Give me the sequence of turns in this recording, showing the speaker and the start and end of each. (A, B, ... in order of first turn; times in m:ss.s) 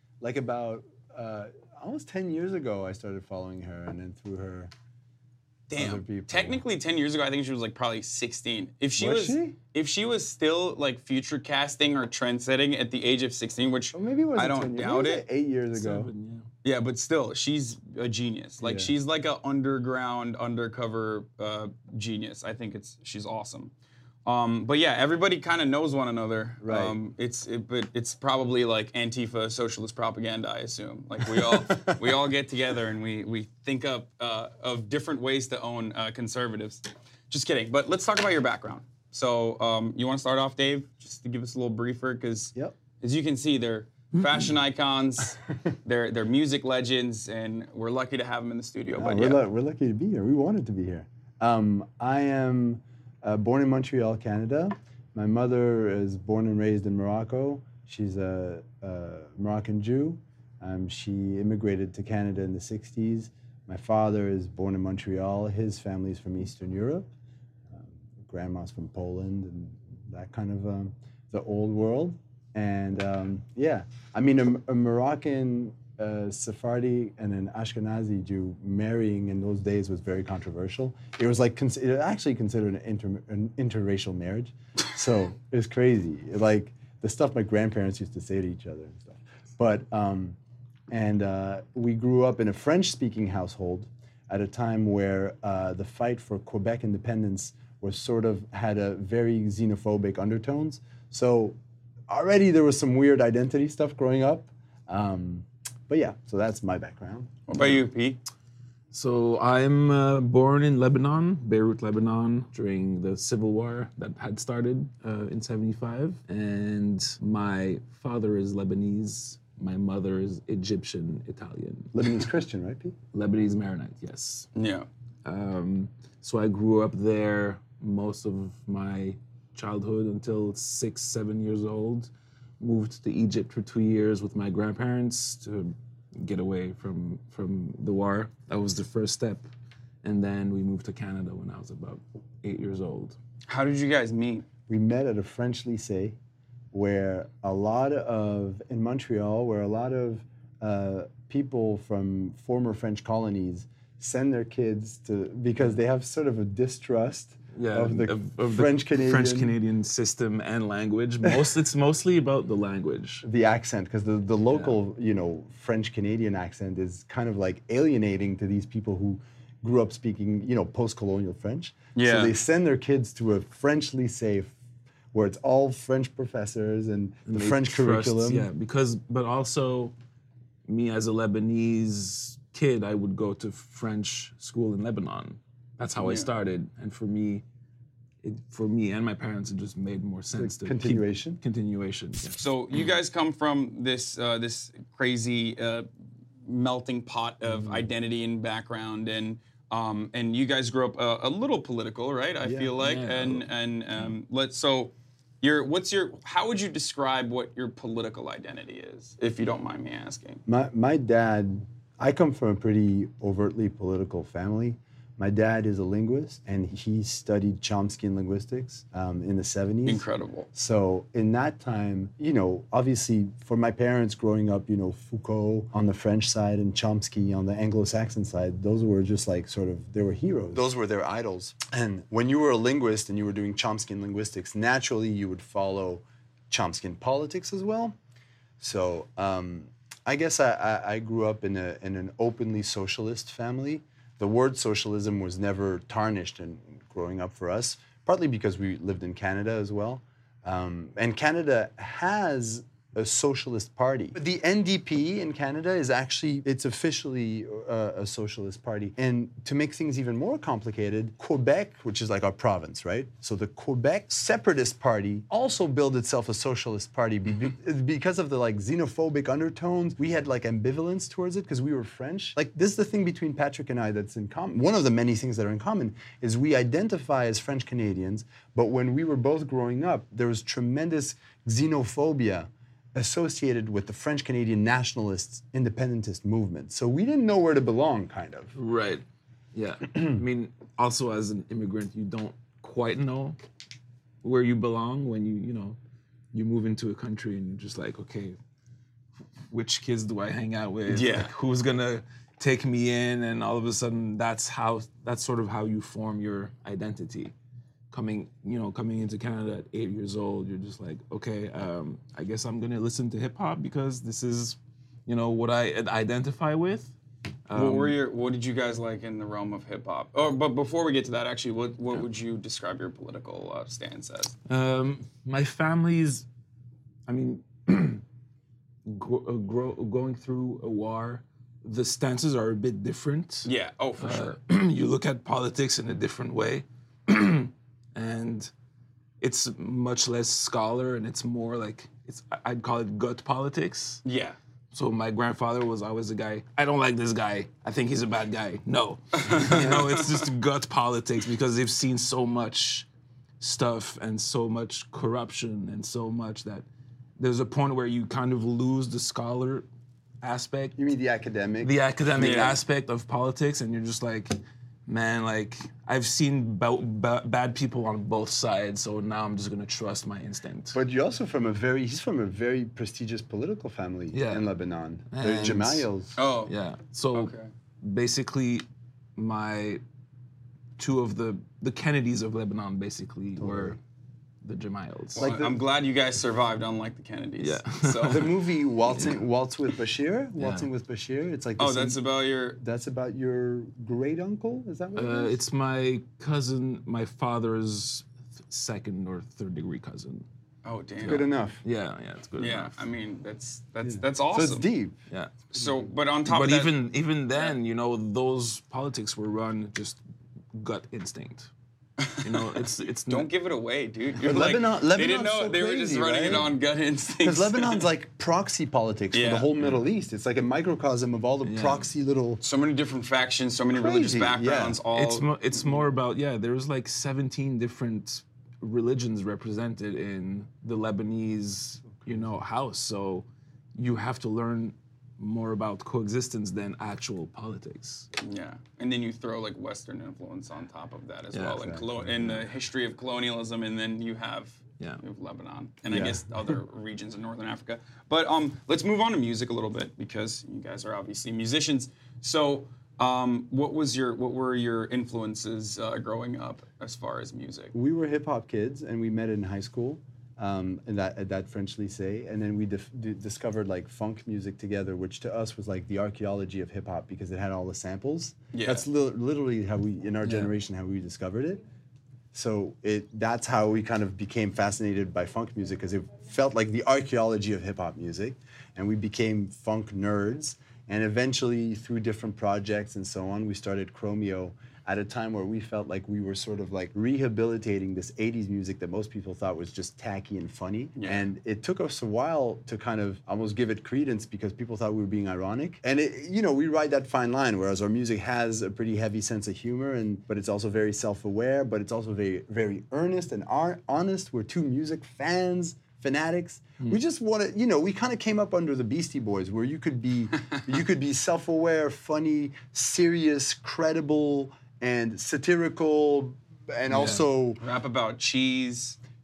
0:00.2-0:04.7 A
0:05.7-0:15.2 B
0:05.8-0:06.6 A
0:09.0-0:09.6 A
0:13.9-0:16.1 A
0:15.8-0:16.5 C
0:16.6-0:23.7 B
0:18.6-0:18.9 A
0:24.2-0:49.4 B
0:26.6-0:27.0 A
0:31.5-0:32.0 A
0:49.0-1:07.1 A
1:07.7-1:30.4 A
1:30.9-1:41.6 A
1:42.1-1:47.3 A
1:47.5-1:48.2 B
1:48.9-2:02.0 C
2:01.9-2:03.0 A
2:03.1-2:04.5 C
2:04.6-2:04.9 B
2:05.2-2:19.5 C
2:20.0-2:23.2 C
2:23.5-2:24.4 B
2:24.7-2:26.2 A
2:26.7-2:39.5 A
2:37.5-2:43.2 C
2:43.2-2:54.6 A
2:44.5-2:44.8 C
2:52.0-2:52.3 B
2:55.1-2:58.5 A
2:57.3-3:00.0 C
3:00.7-3:07.4 C
3:06.0-3:06.3 B
3:08.2-3:12.4 C
3:10.4-3:11.4 A
3:12.4-3:15.9 B
3:16.4-3:30.4 B
3:22.4-3:22.7 A
3:22.8-3:23.5 C
3:30.5-3:58.0 A
3:39.9-3:40.5 B
3:58.6-4:48.6 A
4:48.6-4:53.4 C
4:54.2-4:55.8 C
4:56.3-4:58.4 C
4:59.5-5:07.3 C
5:00.9-5:01.3 B
5:07.9-5:17.0 C
5:17.5-5:18.0 C
5:17.6-5:24.4 B
5:24.5-5:26.3 C
5:27.1-5:28.0 C
5:28.9-5:33.5 C
5:33.4-5:34.3 B
5:34.0-5:38.5 C
5:39.2-5:44.0 C
5:44.0-5:44.4 B
5:44.7-5:52.9 C
5:49.3-5:50.2 B
5:53.4-5:56.7 C
5:57.2-5:59.7 C
6:00.2-6:00.8 C
6:00.8-6:02.5 A
6:01.6-6:10.8 C
6:02.2-6:02.6 B
6:10.7-6:16.2 A
6:14.1-6:14.5 C
6:15.1-6:15.9 C
6:16.2-6:16.5 B
6:16.5-6:19.8 C
6:17.1-6:17.5 B
6:20.8-6:23.8 C
6:23.4-6:23.8 A
6:24.4-6:25.3 C
6:25.2-6:25.6 A
6:25.2-6:28.4 B
6:27.4-6:28.3 C
6:28.1-6:32.0 A
6:28.9-6:29.2 C
6:30.4-6:30.7 C
6:31.6-6:32.6 B
6:32.6-6:35.4 A
6:35.0-6:40.3 C
6:40.6-6:41.3 B
6:41.0-6:41.6 A
6:41.0-6:42.7 C
6:42.4-6:44.7 B
6:43.8-6:45.0 A
6:45.1-6:45.4 C
6:45.5-6:46.7 B
6:46.3-6:50.0 C
6:50.5-6:51.5 C
6:52.0-6:52.2 B
6:52.2-6:53.3 C
6:53.1-6:57.9 B
6:54.2-6:56.5 A
6:57.2-7:02.4 A
6:59.1-6:59.5 B
7:01.4-7:01.9 C
7:02.4-7:05.3 B
7:03.7-7:04.8 A
7:04.9-7:18.1 C
7:18.2-7:37.7 B
7:21.3-7:21.8 C
7:21.6-7:21.9 A
7:25.9-7:26.2 A
7:37.7-7:51.6 A
7:48.5-7:48.8 B
7:52.3-8:37.6 A
8:11.0-8:11.2 B
8:36.9-8:37.2 C
8:37.6-8:39.0 B